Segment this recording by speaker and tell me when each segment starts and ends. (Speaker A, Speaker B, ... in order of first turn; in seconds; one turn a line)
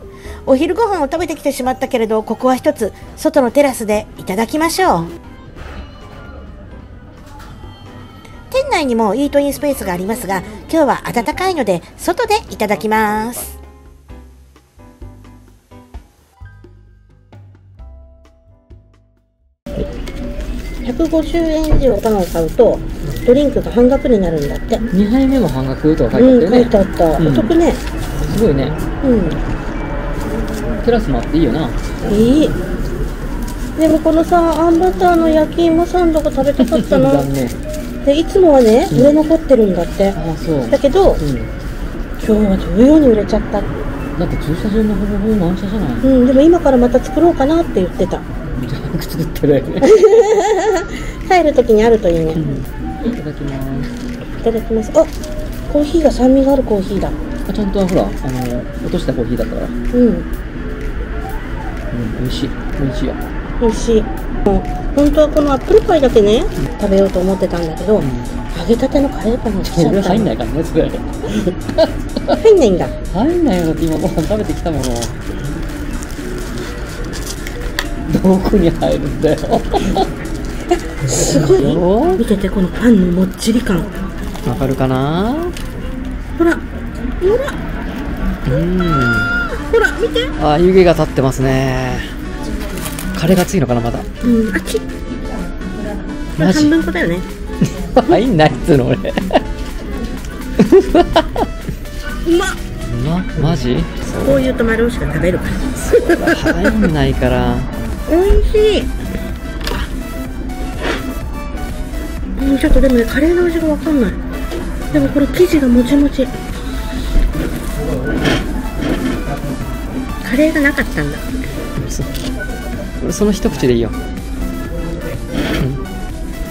Speaker A: 0.5-5.1
Speaker A: 8.5-13.6
Speaker B: 20.8-24.8
Speaker C: 24.9-27.6
Speaker B: 26.1-27.8
Speaker C: 28.2-28.8
Speaker B: 29.0-29.4
Speaker C: 30.7-31.8
Speaker B: 32.0-32.6
Speaker B: 33.8-37.3
Speaker C: 36.6-37.6
Speaker B: 38.0-41.2
Speaker C: 40.1-41.5
Speaker B: 42.2-43.8
Speaker C: 44.1-46.1
Speaker B: 46.0-48.2
Speaker C: 48.5-50.0
Speaker B: 49.8-52.4
Speaker C: 52.3-53.9
Speaker B: 54.4-55.1
Speaker B: 55.7-57.2
Speaker C: 57.5-59.7
Speaker B: 59.9-60.3
Speaker C: 61.9-63.2
Speaker B: 63.6-70.3
Speaker C: 68.0-68.3
Speaker C: 69.6-71.2
Speaker C: 71.8-72.4
Speaker B: 72.3-72.9
Speaker C: 73.1-75.2
Speaker C: 78.1-80.1
Speaker B: 81.0-83.9
Speaker C: 81.2-82.2
Speaker C: 84.4-85.5
Speaker B: 86.4-86.6
Speaker B: 87.2-87.5
Speaker C: 88.4-89.3
Speaker B: 89.5-90.3
Speaker C: 90.4-92.2
Speaker C: 93.1-94.1
Speaker B: 94.2-94.8
Speaker B: 96.3-97.3
Speaker C: 96.4-96.7
Speaker C: 97.6-99.4
Speaker C: 100.6-101.5
Speaker B: 102.2-102.6
Speaker C: 102.8-104.4
Speaker B: 104.1-106.8
Speaker C: 106.1-107.7
Speaker B: 108.1-108.9
Speaker B: 112.4-114.2
Speaker B: 114.9-116.3
Speaker B: 120.2-121.3
Speaker C: 121.8-122.1
Speaker C: 123.0-124.0
Speaker C: 125.6-125.8